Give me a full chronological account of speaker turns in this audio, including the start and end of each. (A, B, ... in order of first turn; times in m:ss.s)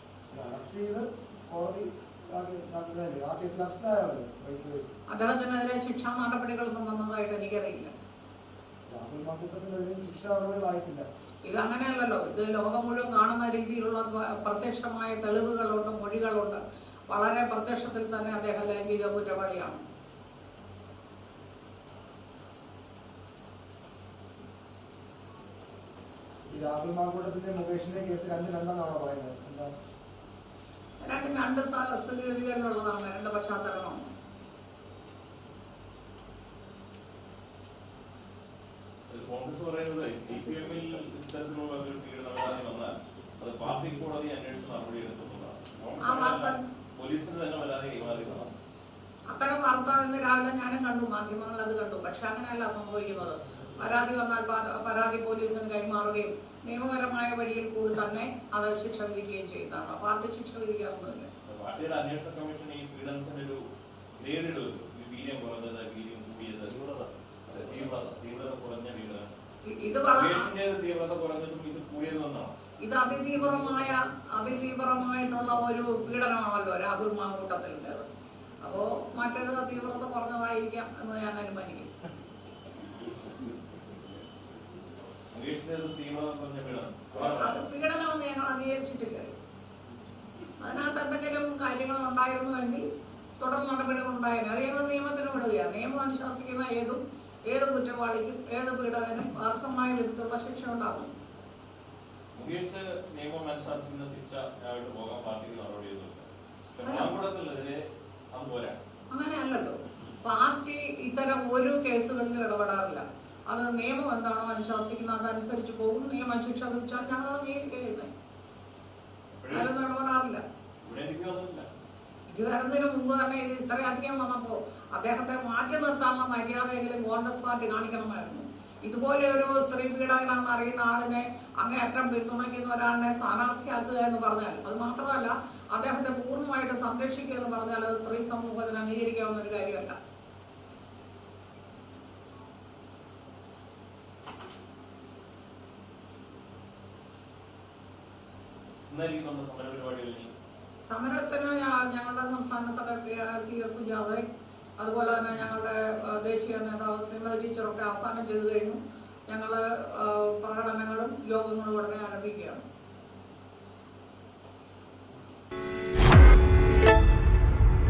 0:00.3-0:04.9 A
0:05.1-0:07.9 B
0:08.9-0:11.1 A
0:11.4-0:19.8 B
0:26.5-0:29.7 A
0:31.0-0:34.0 B
0:39.1-0:48.5 C
0:46.0-0:46.6 B
0:49.3-1:01.3 B
1:01.4-1:03.6 C
1:04.2-1:09.3 C
1:09.6-1:10.5 B
1:10.1-1:12.5 C
1:12.8-1:18.1 B
1:18.6-1:21.9 B
1:25.3-1:27.6 C
1:27.1-1:29.3 B
1:30.6-1:32.9 B
1:33.4-1:41.1 B
1:42.3-1:48.8 C
1:46.8-1:47.1 B
1:49.1-1:58.1 B
1:59.3-1:59.7 C
1:59.5-2:00.4 B
2:00.8-2:01.7 C
2:02.3-2:20.0 B
2:28.8-2:30.3 C
2:30.9-2:34.2 B
2:34.8-2:42.6 B